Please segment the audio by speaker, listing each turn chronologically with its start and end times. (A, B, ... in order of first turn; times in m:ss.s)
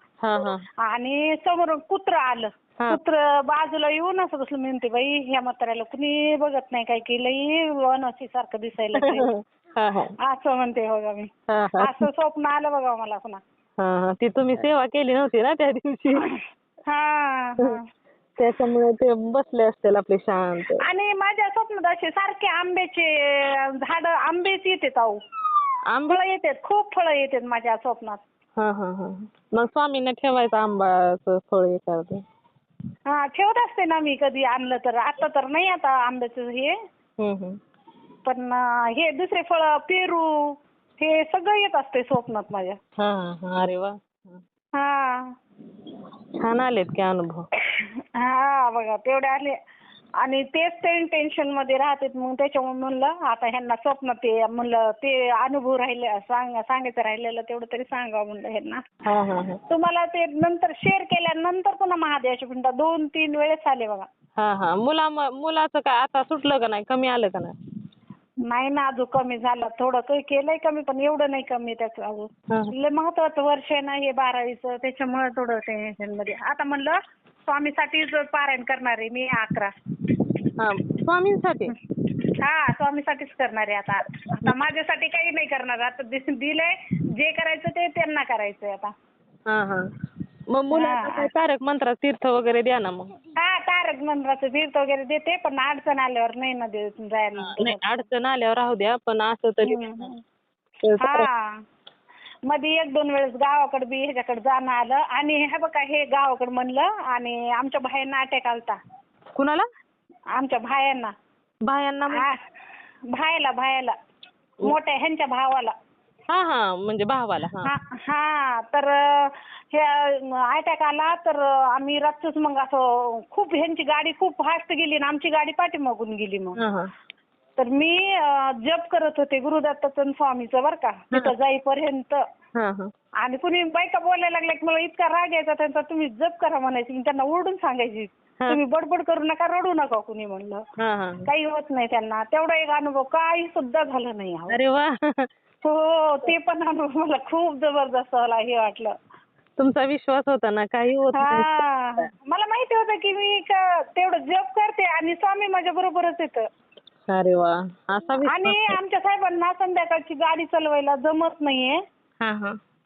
0:00.2-0:00.6 A
0:00.8-0:09.3 B
0:09.0-0:10.1 A
0:10.2-0:13.4 B
0:11.5-0:12.0 A
0:13.8-0:16.3 A
0:16.2-0:17.8 B
0:18.4-0:20.8 A
0:20.8-0:25.2 B
0:25.9-0:26.2 A
0:26.1-0:28.2 B
0:28.6-0:32.2 A
0:33.1-0:36.7 B
0:37.2-0:37.6 A
0:38.2-0:42.8 B
0:43.0-0:44.4 A
0:44.8-0:45.3 B
0:46.4-0:47.5 A
0:48.2-0:49.5 B
0:50.2-0:58.8 B
0:59.1-0:59.6 A
0:59.7-1:04.0 B
1:04.4-1:07.5 A
1:08.5-1:19.7 B
1:20.6-1:21.7 A
1:22.4-1:28.9 B
1:29.5-1:29.8 A
1:30.5-1:33.2 A
1:30.7-1:31.3 B
1:33.4-1:37.8 B
1:37.4-1:40.1 A
1:39.6-1:40.2 B
1:40.8-1:41.3 A
1:41.0-1:41.6 B
1:42.4-1:48.8 B
1:49.4-1:49.6 A
1:50.4-1:51.1 B
1:51.6-1:52.2 A
1:52.1-1:52.4 B
1:53.1-1:53.9 B
1:54.6-1:55.7 B
1:56.3-1:57.7 A
1:57.6-2:06.6 B
2:06.6-2:06.9 A
2:07.6-2:12.2 B
2:12.6-2:12.9 A
2:13.2-2:20.6 B
2:20.8-2:21.3 A
2:21.2-2:24.6 B
2:24.5-2:25.3 A
2:25.6-2:28.9 B
2:29.6-2:32.1 A
2:31.2-2:36.4 B
2:37.1-2:38.8 A
2:38.3-2:41.8 B
2:42.2-2:42.6 A